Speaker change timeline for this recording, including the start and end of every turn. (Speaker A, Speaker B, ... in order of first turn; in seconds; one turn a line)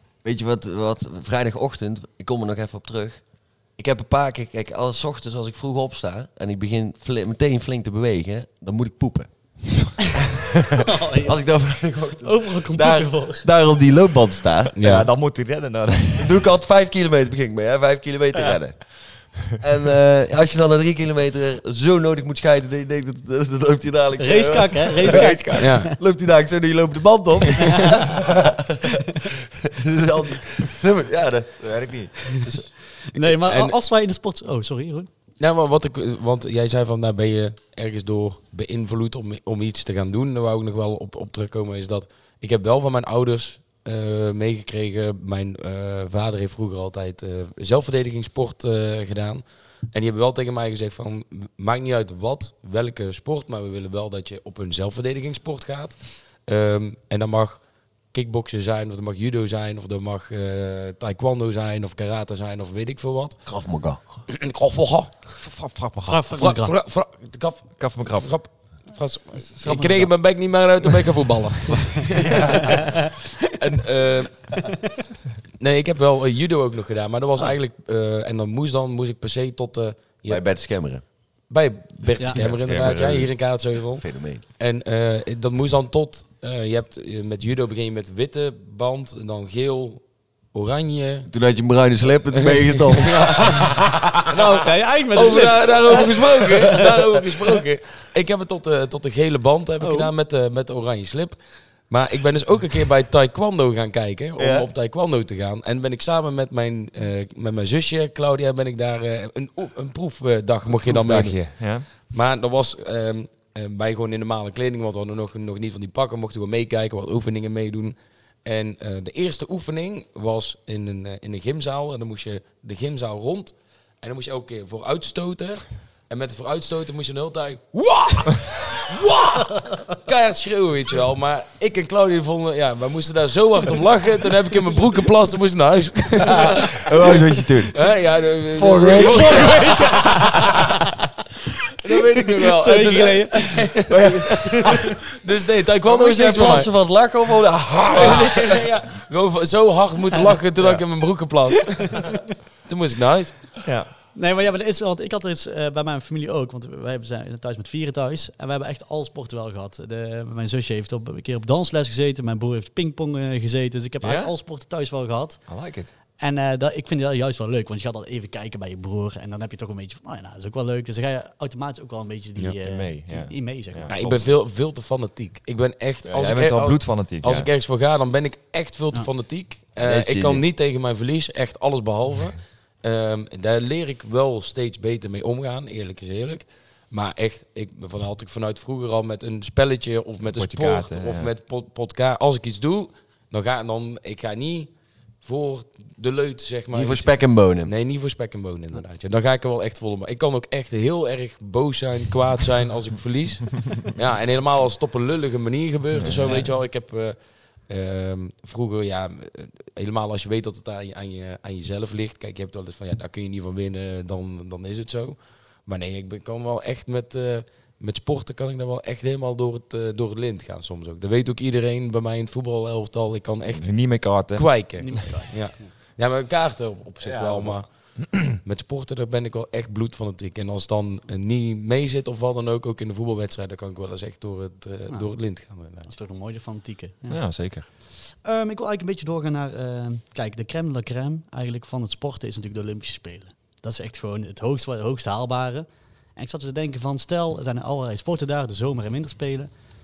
Speaker A: 0.2-14.7
Speaker B: 10.8-11.6
Speaker B: 12.2-13.4
Speaker C: 14.7-16.4
Speaker D: 14.8-15.1
Speaker A: 16.2-28.8
Speaker B: 24.2-25.9
Speaker C: 25.1-25.7
Speaker D: 25.6-25.9
Speaker A: 29.7-31.8
Speaker C: 31.6-32.5
Speaker B: 33.1-35.1
Speaker D: 33.4-33.8
Speaker D: 35.4-63.5
Speaker A: 63.5-64.0
Speaker D: 64.3-65.5
Speaker C: 65.4-66.2
Speaker B: 66.0-66.7
Speaker D: 66.1-74.6
Speaker C: 67.8-68.3
Speaker B: 69.4-70.1
Speaker A: 72.2-72.6
Speaker D: 75.6-80.4
Speaker A: 80.3-81.0
Speaker D: 81.5-91.3
Speaker C: 82.3-83.3
Speaker A: 84.0-84.4
Speaker A: 91.3-94.1
Speaker D: 92.3-93.7
Speaker D: 94.3-137.2
Speaker B: 94.6-96.1
Speaker B: 99.8-100.1
Speaker A: 104.4-104.7
Speaker C: 110.7-111.9
Speaker A: 136.4-137.7
Speaker D: 137.7-140.8
Speaker A: 138.5-139.7
Speaker B: 138.9-140.5
Speaker D: 141.8-146.7
Speaker B: 142.4-143.9
Speaker A: 143.9-144.2
Speaker A: 145.8-148.6
Speaker D: 147.9-152.1
Speaker D: 152.7-153.5
Speaker C: 153.6-153.9
Speaker B: 154.1-165.5
Speaker C: 164.0-164.3
Speaker C: 165.5-165.9
Speaker B: 166.2-173.9
Speaker C: 172.6-174.3
Speaker D: 173.9-194.7
Speaker C: 176.1-177.5
Speaker A: 179.8-180.4
Speaker C: 190.2-191.3
Speaker D: 195.2-207.2
Speaker A: 196.7-197.7
Speaker C: 205.9-206.4
Speaker D: 207.7-235.9
Speaker C: 223.5-224.7
Speaker B: 224.8-225.7
Speaker C: 227.0-227.6
Speaker B: 234.9-237.3
Speaker C: 237.1-237.7
Speaker B: 238.0-249.5